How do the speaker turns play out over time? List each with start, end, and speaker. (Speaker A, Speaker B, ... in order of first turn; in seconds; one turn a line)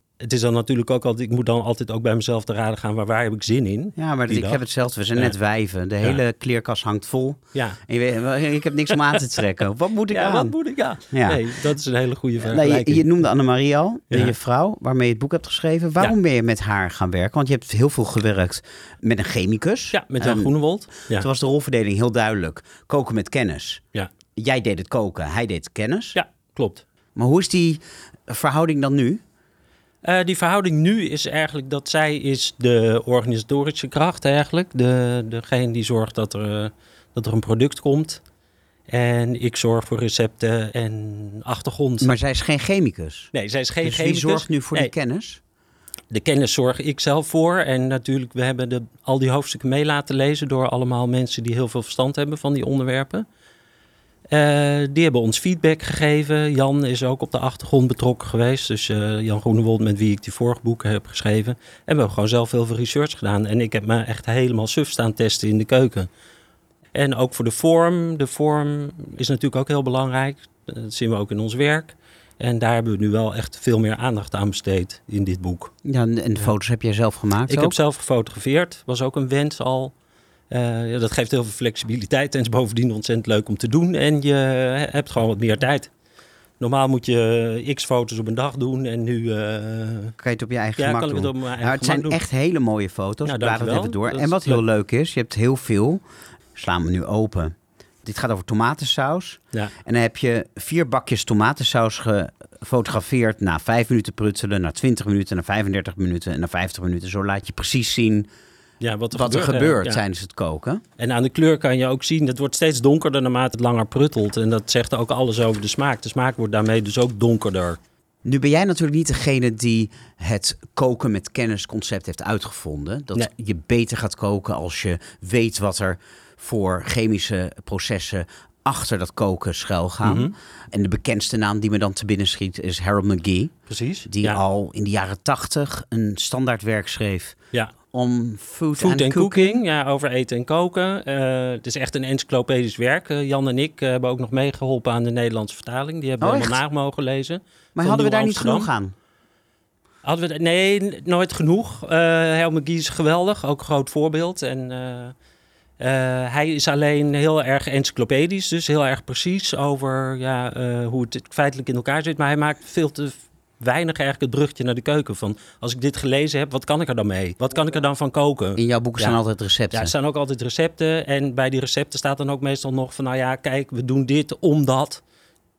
Speaker A: 0.2-4.6
Speaker B: 4.0-10.6
Speaker A: 10.1-13.1
Speaker B: 11.1-11.5
Speaker B: 12.4-20.5
Speaker A: 19.9-21.3
Speaker B: 21.1-23.8
Speaker B: 24.4-26.2
Speaker A: 26.1-26.8
Speaker B: 27.2-29.2
Speaker A: 30.0-38.2
Speaker A: 38.9-42.1
Speaker B: 42.0-45.4
Speaker A: 43.3-44.9
Speaker A: 46.1-53.3
Speaker A: 54.3-66.1
Speaker A: 66.9-75.7
Speaker B: 75.8-77.8
Speaker A: 77.5-79.9
Speaker A: 80.5-85.9
Speaker A: 86.6-90.1
Speaker B: 90.2-96.0
Speaker A: 90.8-92.2
Speaker A: 93.2-94.6
Speaker B: 96.6-108.3
Speaker A: 108.8-110.0
Speaker B: 109.1-110.8
Speaker A: 111.0-117.8
Speaker B: 118.2-137.4
Speaker A: 130.0-130.3
Speaker A: 133.7-134.4
Speaker B: 137.9-139.6
Speaker A: 138.8-148.7
Speaker B: 146.2-146.6
Speaker B: 147.8-148.9
Speaker A: 150.0-155.1
Speaker A: 155.8-169.2
Speaker B: 168.6-169.9
Speaker A: 169.7-175.0